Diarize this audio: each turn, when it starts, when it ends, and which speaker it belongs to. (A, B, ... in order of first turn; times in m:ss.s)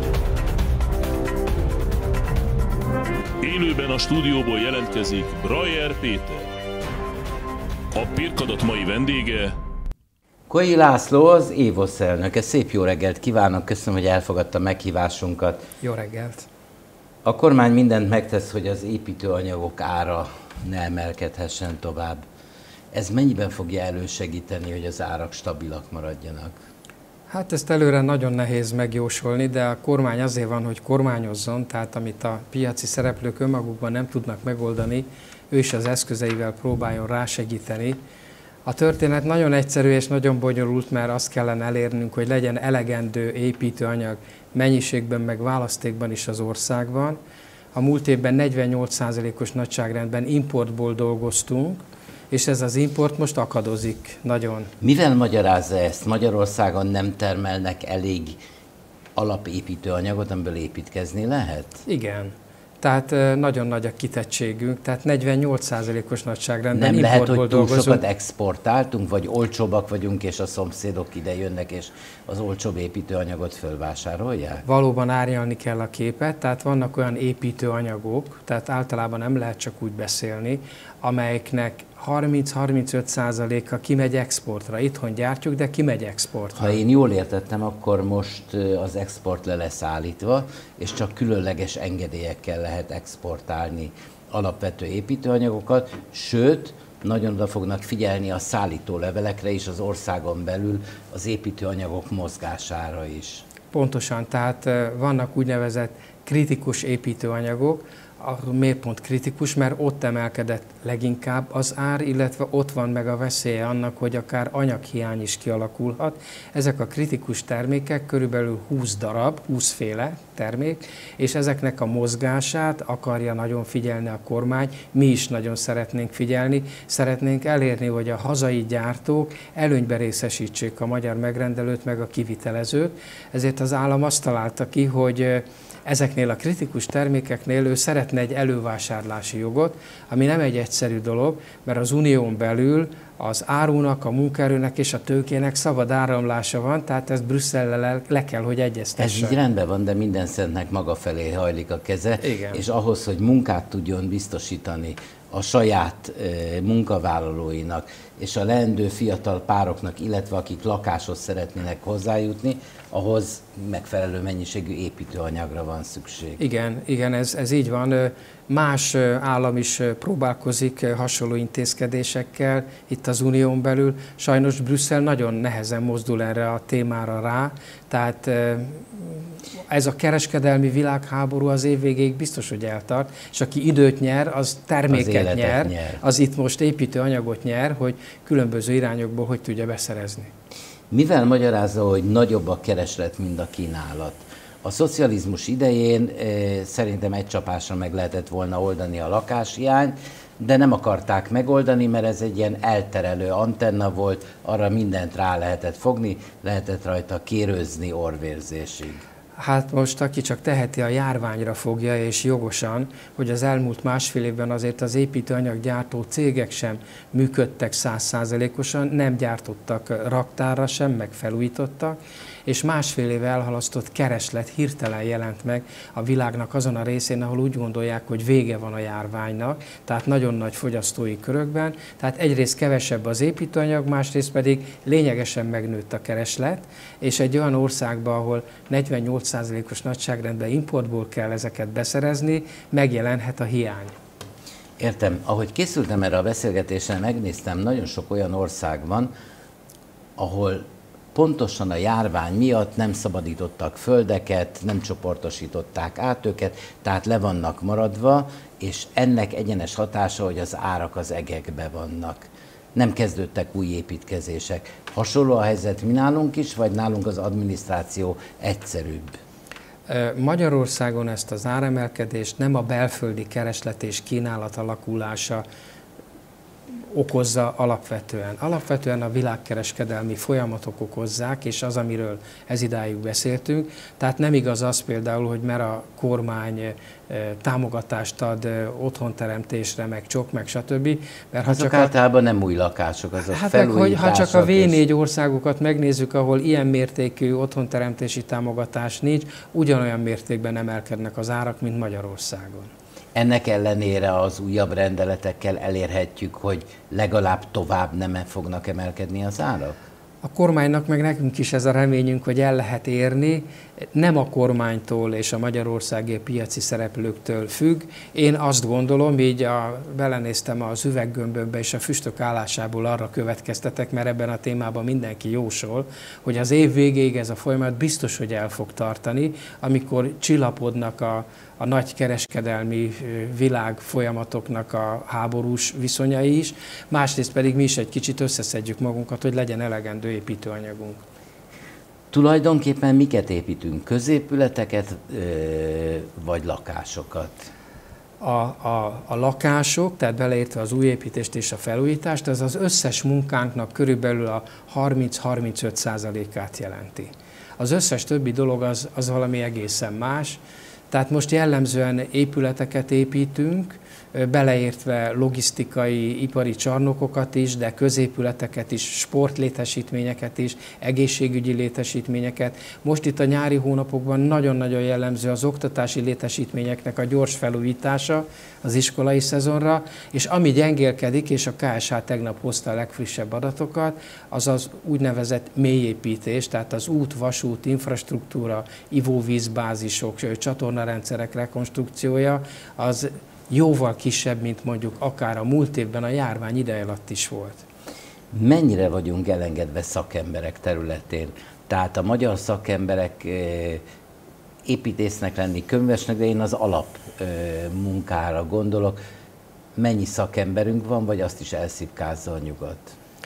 0:03.4-0:06.4 A
0:07.9-0:09.6 A
0:10.5-0:15.6 B
0:15.8-0:16.5 C
0:17.2-0:22.2 B
0:22.9-0:26.6 B
0:27.3-0:38.0 C
0:38.6-0:47.2 C
0:47.7-0:54.7 C
0:54.8-0:58.4 B
0:59.2-1:01.8 B
1:01.8-1:08.0 C
1:06.7-1:14.6 B
1:14.6-1:26.8 C
1:26.5-1:43.4 B
1:43.7-2:29.4 C
2:29.0-2:46.4 B
2:32.2-2:32.6 C
2:46.4-3:10.3 C
3:04.9-3:06.0 B
3:10.9-3:29.0 B
3:29.4-4:03.9 C
4:04.8-4:09.1 B
4:10.2-4:29.2 B
4:29.9-4:35.4 C
4:36.9-4:51.9 C
4:51.4-4:54.8 B
4:53.3-5:02.7 C
5:03.1-5:09.8 B
5:10.2-5:41.0 C
5:42.1-5:47.5 B
5:48.2-6:37.6 C
6:38.3-6:43.8 B
6:44.6-6:49.0 B
6:49.8-6:52.9 B